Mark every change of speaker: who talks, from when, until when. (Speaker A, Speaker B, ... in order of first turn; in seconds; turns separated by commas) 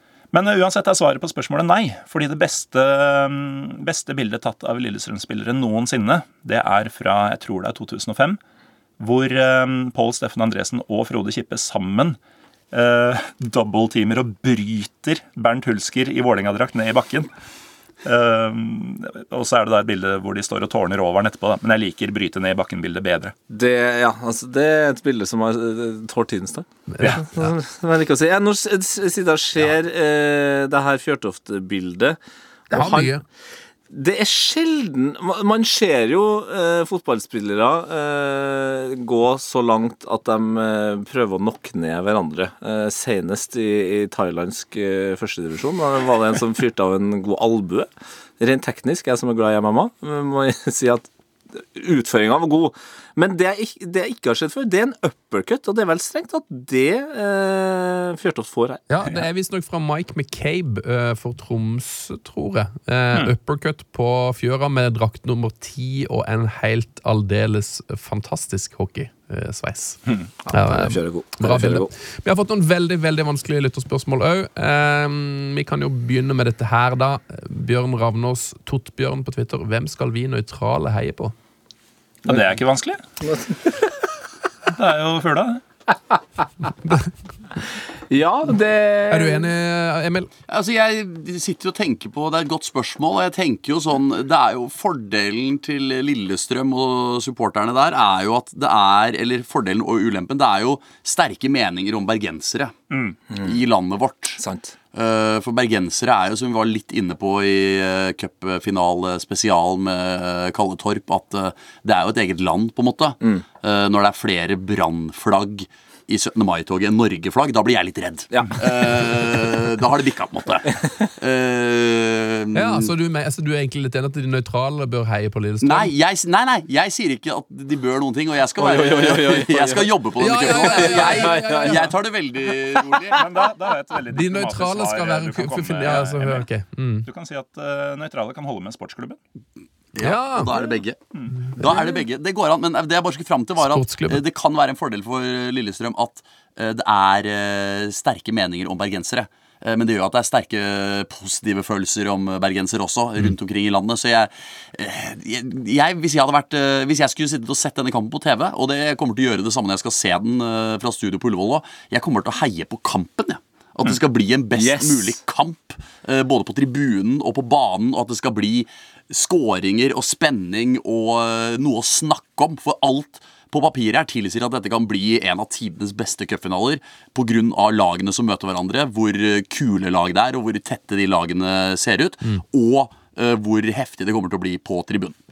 Speaker A: 0.3-8.4, Speaker A: 9.0-12.2, Speaker A: 12.7-17.3, Speaker A: 18.0-23.3, Speaker B: 23.5-32.2, Speaker B: 32.7-33.1, Speaker C: 32.7-33.2, Speaker B: 33.9-47.9, Speaker B: 48.4-58.8, Speaker C: 58.9-81.3, Speaker B: 70.4-71.9, Speaker A: 82.3-83.0, Speaker B: 83.2-83.9, Speaker A: 84.7-85.6, Speaker B: 85.9-86.2, Speaker B: 87.6-89.5, Speaker C: 89.1-90.3, Speaker D: 90.5-102.8, Speaker A: 102.9-103.2, Speaker D: 103.3-104.4, Speaker B: 104.4-104.7, Speaker D: 104.9-122.9, Speaker B: 118.3-118.6, Speaker B: 120.8-121.1, Speaker C: 122.5-125.9, Speaker D: 125.6-133.3, Speaker B: 128.6-131.9, Speaker C: 130.2-131.9, Speaker A: 133.1-136.5, Speaker C: 134.1-137.1, Speaker A: 137.1-139.2, Speaker D: 139.9-185.2, Speaker C: 140.0-140.5, Speaker C: 143.6-144.2, Speaker B: 164.6-165.2